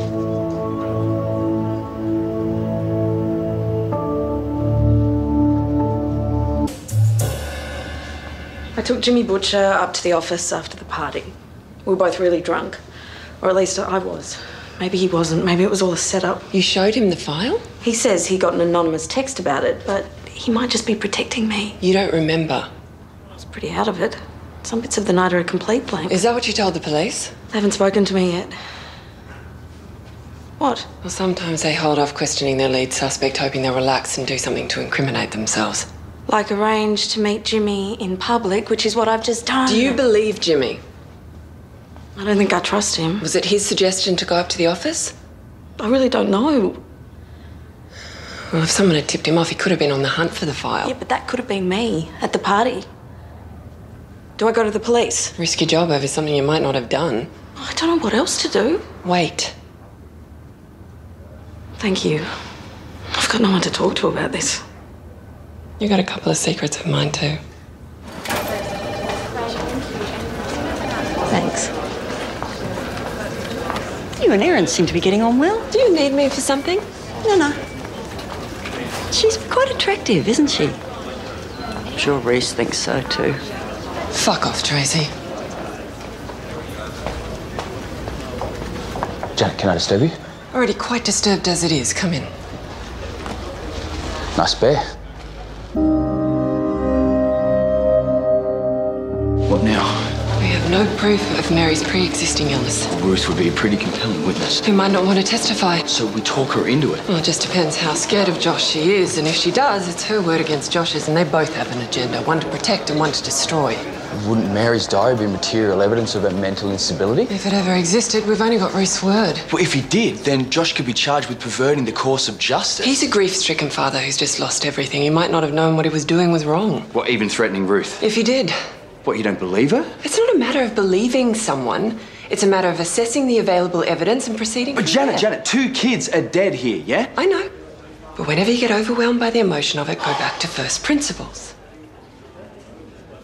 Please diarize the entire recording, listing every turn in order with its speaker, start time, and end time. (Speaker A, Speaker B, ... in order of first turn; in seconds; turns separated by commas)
Speaker A: 8.8-11.3, Speaker A: 11.8-12.8, Speaker A: 13.4-16.4, Speaker B: 16.5-17.6, Speaker A: 17.8-21.8, Speaker B: 21.8-22.7, Speaker A: 23.4-26.1, Speaker B: 26.1-27.3, Speaker A: 27.5-28.5, Speaker A: 30.6-30.9, Speaker B: 31.0-35.9, Speaker A: 36.3-40.0, Speaker B: 39.6-40.8, Speaker A: 42.2-43.2, Speaker B: 43.2-45.1, Speaker A: 45.8-46.8, Speaker B: 48.5-50.9, Speaker A: 50.8-52.9, Speaker A: 54.4-55.3, Speaker B: 55.4-57.3, Speaker A: 57.6-58.8, Speaker B: 59.0-59.5, Speaker A: 61.8-62.3, Speaker A: 63.1-64.6, Speaker B: 65.8-67.4, Speaker A: 71.3-71.7, Speaker C: 74.2-75.7, Speaker B: 75.7-76.8, Speaker C: 77.2-77.5, Speaker C: 79.1-80.8, Speaker C: 81.9-83.4, Speaker B: 84.1-85.1, Speaker D: 89.3-90.1, Speaker B: 90.5-92.3, Speaker D: 94.3-94.8, Speaker D: 99.5-100.2, Speaker B: 100.4-102.9, Speaker D: 102.9-104.6, Speaker B: 104.6-105.8, Speaker D: 105.9-107.0, Speaker B: 107.1-113.8, Speaker D: 114.1-117.3, Speaker B: 117.3-119.5, Speaker D: 119.5-123.0, Speaker B: 122.8-126.9, Speaker D: 126.9-128.0, Speaker B: 128.0-128.5, Speaker D: 129.0-129.9, Speaker B: 130.0-135.3, Speaker D: 134.8-137.1, Speaker B: 137.2-137.5, Speaker B: 138.2-141.5